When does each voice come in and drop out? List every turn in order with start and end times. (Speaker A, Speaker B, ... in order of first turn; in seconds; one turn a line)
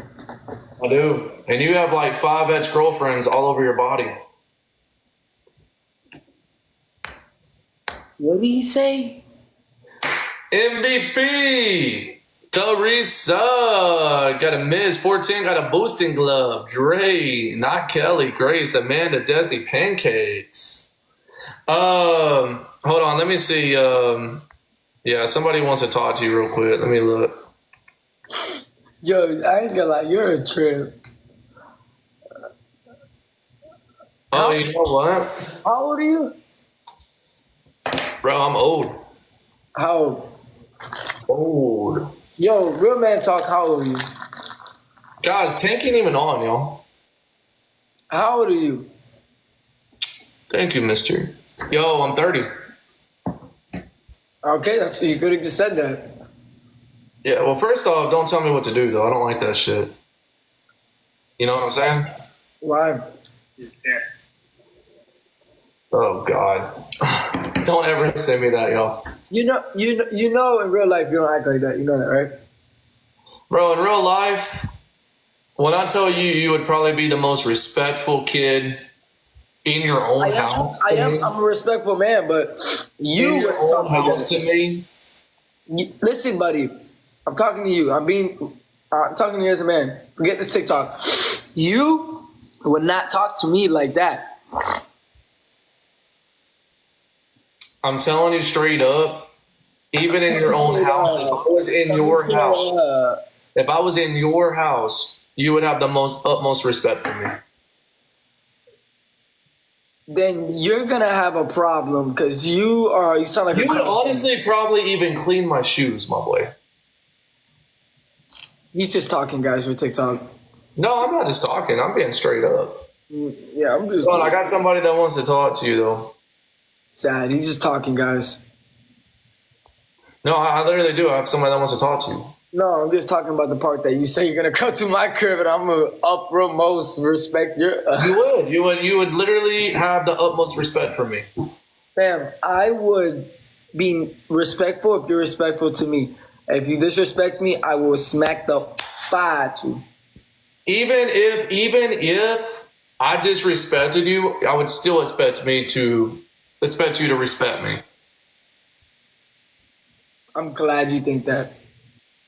Speaker A: 0.8-4.2
Speaker B: 8.2-9.2
Speaker A: 10.5-20.9
Speaker A: 21.7-24.4
Speaker A: 25.0-27.4
Speaker B: 29.0-30.9
Speaker A: 34.3-35.4
Speaker B: 34.3-34.7
Speaker B: 35.6-36.4
Speaker A: 38.2-39.0
Speaker B: 39.8-40.3
Speaker A: 41.3-42.1
Speaker B: 42.4-44.1
Speaker A: 45.2-46.8
Speaker B: 48.1-48.9
Speaker A: 50.5-52.5
Speaker B: 54.4-56.1
Speaker A: 57.2-59.9
Speaker A: 61.4-62.1
Speaker B: 62.6-63.1
Speaker A: 65.9-69.0
Speaker B: 69.3-72.3
Speaker A: 73.5-74.7
Speaker A: 75.6-78.8
Speaker A: 79.6-81.3
Speaker B: 80.2-84.3
Speaker A: 83.2-84.9
Speaker B: 85.7-86.7
Speaker B: 87.3-94.4
Speaker A: 97.8-99.3
Speaker A: 99.9-102.8
Speaker B: 100.3-103.2
Speaker A: 103.5-107.4
Speaker B: 110.1-114.3
Speaker A: 113.5-116.5
Speaker B: 118.7-120.3
Speaker A: 120.8-122.9
Speaker B: 123.1-124.5
Speaker A: 124.0-126.1
Speaker B: 127.0-128.4
Speaker A: 130.2-132.3
Speaker B: 132.5-138.2
Speaker A: 138.0-141.3
Speaker B: 142.0-149.8
Speaker A: 150.7-157.8
Speaker B: 160.3-161.6